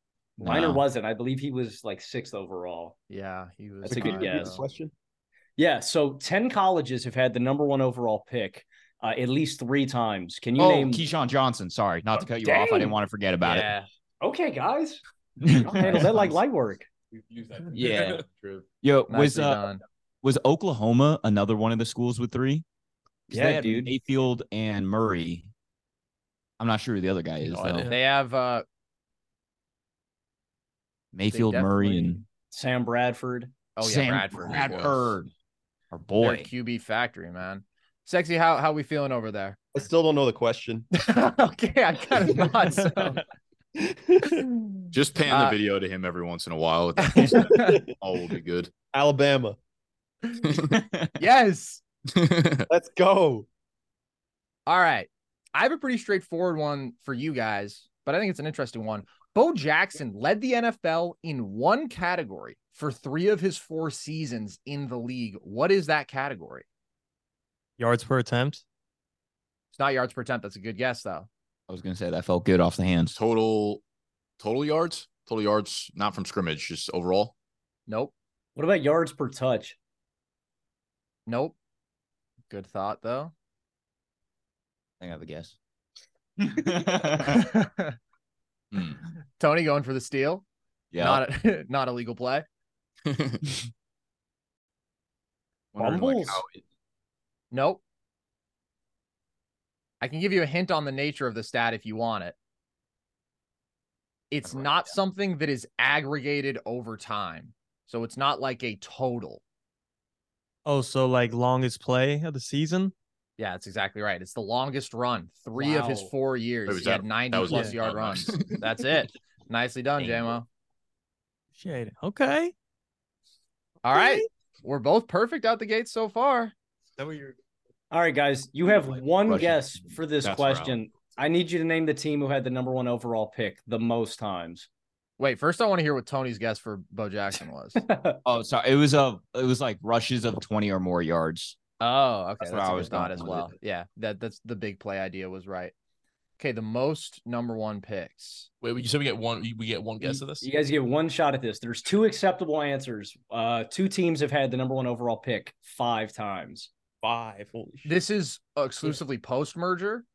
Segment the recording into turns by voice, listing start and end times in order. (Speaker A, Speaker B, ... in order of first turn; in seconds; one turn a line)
Speaker A: 0.4-3.0
Speaker B: 0.4-0.8
Speaker C: 3.1-4.6
Speaker A: 3.8-4.6
Speaker D: 3.9-4.9
Speaker A: 5.6-11.0
Speaker B: 10.6-13.7
Speaker A: 12.3-13.0
Speaker C: 13.4-13.9
Speaker A: 14.2-16.9
Speaker B: 15.4-16.3
Speaker E: 17.4-18.1
Speaker B: 17.8-18.2
Speaker B: 18.8-19.6
Speaker C: 19.1-19.8
Speaker B: 20.2-22.6
Speaker B: 23.3-25.5
Speaker A: 23.3-23.9
Speaker B: 26.6-27.9
Speaker E: 27.4-28.0
Speaker C: 27.9-28.6
Speaker B: 31.1-32.2
Speaker C: 31.3-32.2
Speaker A: 32.5-33.5
Speaker C: 33.8-35.1
Speaker B: 33.8-35.3
Speaker F: 34.5-34.9
Speaker B: 35.9-36.5
Speaker C: 36.2-39.7
Speaker D: 39.7-40.9
Speaker C: 40.9-43.2
Speaker D: 43.8-44.4
Speaker C: 44.3-45.6
Speaker F: 44.9-47.4
Speaker C: 47.0-47.8
Speaker D: 47.3-47.9
Speaker F: 48.0-48.7
Speaker D: 48.9-49.6
Speaker F: 50.4-50.7
Speaker B: 50.7-51.0
Speaker C: 51.2-51.8
Speaker F: 52.1-52.7
Speaker D: 52.7-53.5
Speaker C: 54.7-66.6
Speaker G: 67.8-68.6
Speaker C: 69.8-71.3
Speaker B: 71.7-73.2
Speaker F: 73.1-73.8
Speaker F: 74.4-77.3
Speaker C: 77.9-78.1
Speaker A: 78.5-79.8
Speaker C: 81.2-81.5
Speaker C: 82.5-83.3
Speaker B: 85.0-85.5
Speaker B: 86.4-87.5
Speaker C: 87.1-88.0
Speaker C: 89.4-90.4
Speaker B: 90.9-91.2
Speaker C: 91.0-92.5
Speaker F: 93.0-93.4
Speaker F: 95.7-96.6
Speaker A: 95.8-96.4
Speaker C: 97.5-97.8
Speaker C: 100.0-102.3
Speaker C: 104.3-109.4
Speaker B: 104.4-104.8
Speaker G: 110.7-112.9
Speaker C: 113.4-120.5
Speaker A: 115.6-116.1
Speaker F: 116.7-118.7
Speaker G: 117.5-117.8
Speaker B: 120.0-120.4
Speaker G: 121.5-122.5
Speaker C: 123.8-126.5
Speaker G: 123.9-124.2
Speaker G: 127.0-127.3
Speaker A: 127.9-134.7
Speaker B: 129.2-129.8
Speaker F: 130.2-130.8
Speaker C: 135.2-137.8
Speaker A: 137.8-138.2
Speaker B: 138.2-141.6
Speaker C: 141.8-145.7
Speaker B: 142.4-143.5
Speaker C: 146.4-148.5
Speaker E: 148.6-150.5
Speaker A: 150.0-156.7
Speaker D: 157.0-157.9
Speaker C: 157.8-160.0